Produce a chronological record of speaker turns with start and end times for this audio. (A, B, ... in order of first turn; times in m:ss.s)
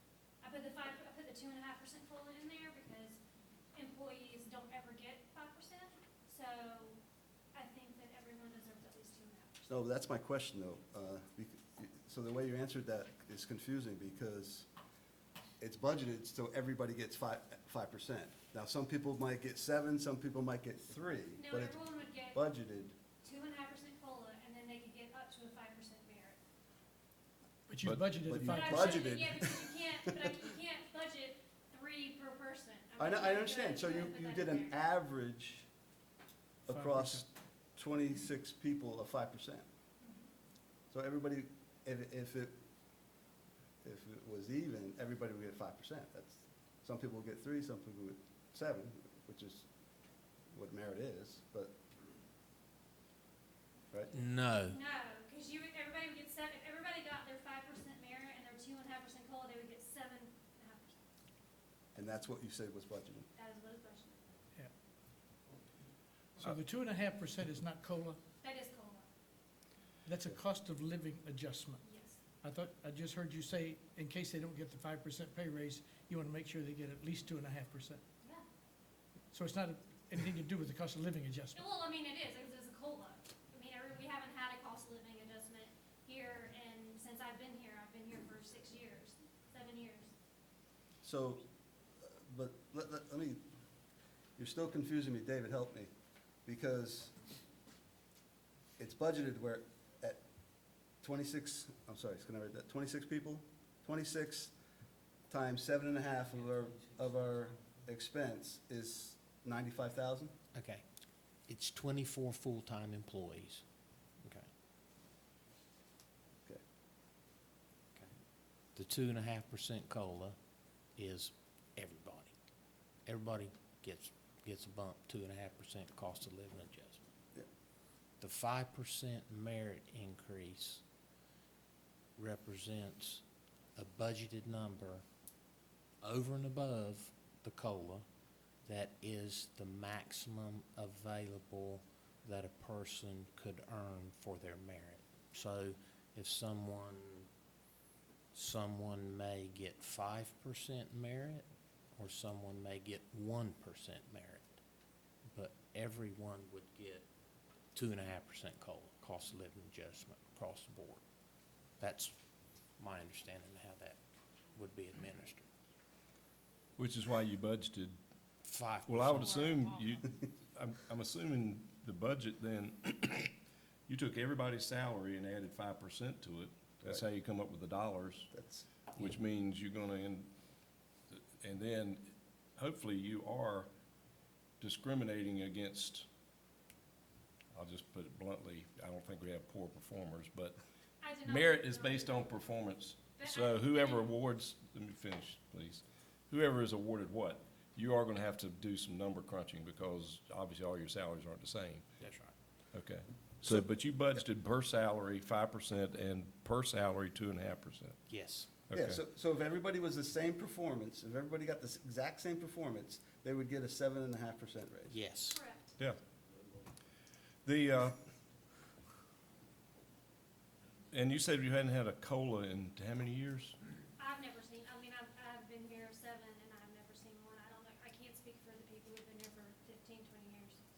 0:00.4-0:03.2 A
0:03.7-0:07.0 A
0:07.5-0:09.6 A
0:09.7-0:14.7 B
0:15.6-0:23.0 B
0:21.4-0:22.4 A
0:23.2-0:26.4 A
0:27.7-0:29.2 C
0:27.8-0:28.2 D
0:28.2-0:29.8 B
0:28.4-0:34.7 A
0:33.0-0:35.7 B
0:36.7-0:39.6 B
0:36.7-0:37.2 C
0:40.0-0:40.3 A
0:40.9-0:42.6 B
0:43.8-0:49.7 B
0:50.5-0:51.7 B
0:54.1-0:54.8 E
0:54.7-1:01.0 A
1:02.0-1:03.3 B
1:03.4-1:04.2 A
1:06.4-1:08.2 C
1:08.4-1:09.1 A
1:10.0-1:11.8 C
1:11.8-1:12.2 A
1:12.4-1:18.0 C
1:19.3-1:21.6 C
1:21.5-1:30.1 A
1:31.0-1:31.4 B
1:32.0-1:33.4 B
1:34.4-1:35.9 B
1:36.5-1:37.1 B
1:38.8-1:40.2 B
1:41.0-1:44.5 B
1:45.3-1:50.3 B
1:50.5-1:50.8 E
1:51.5-1:53.6 E
1:54.2-1:54.5 E
1:58.7-2:00.4 E
2:01.0-2:02.3 E
2:03.1-2:07.1 E
2:08.2-2:10.8 E
2:12.2-2:13.2 E
2:13.8-2:15.0 E
2:16.0-2:18.1 E
2:18.6-2:27.3 E
2:28.3-2:34.6 E
2:35.3-2:37.1 E
2:37.7-2:41.0 E
2:41.8-2:42.2 E
2:42.8-2:44.0 E
2:44.6-2:45.5 E
2:46.8-2:48.0 D
2:48.4-2:49.6 E
2:48.8-2:53.4 D
2:53.9-2:58.3 D
2:58.3-2:58.7 B
2:59.0-3:00.3 D
3:01.1-3:03.7 D
3:04.6-3:06.1 D
3:07.5-3:10.6 D
3:11.0-3:14.1 A
3:11.2-3:21.9 D
3:22.0-3:22.4 E
3:22.7-3:28.0 D
3:28.1-3:28.5 E
3:28.7-3:29.0 D
3:28.7-3:34.9 B
3:34.9-3:35.4 E
3:35.3-3:35.7 A
3:37.4-3:38.0 D
3:40.9-3:43.6 D
3:44.0-3:50.6 A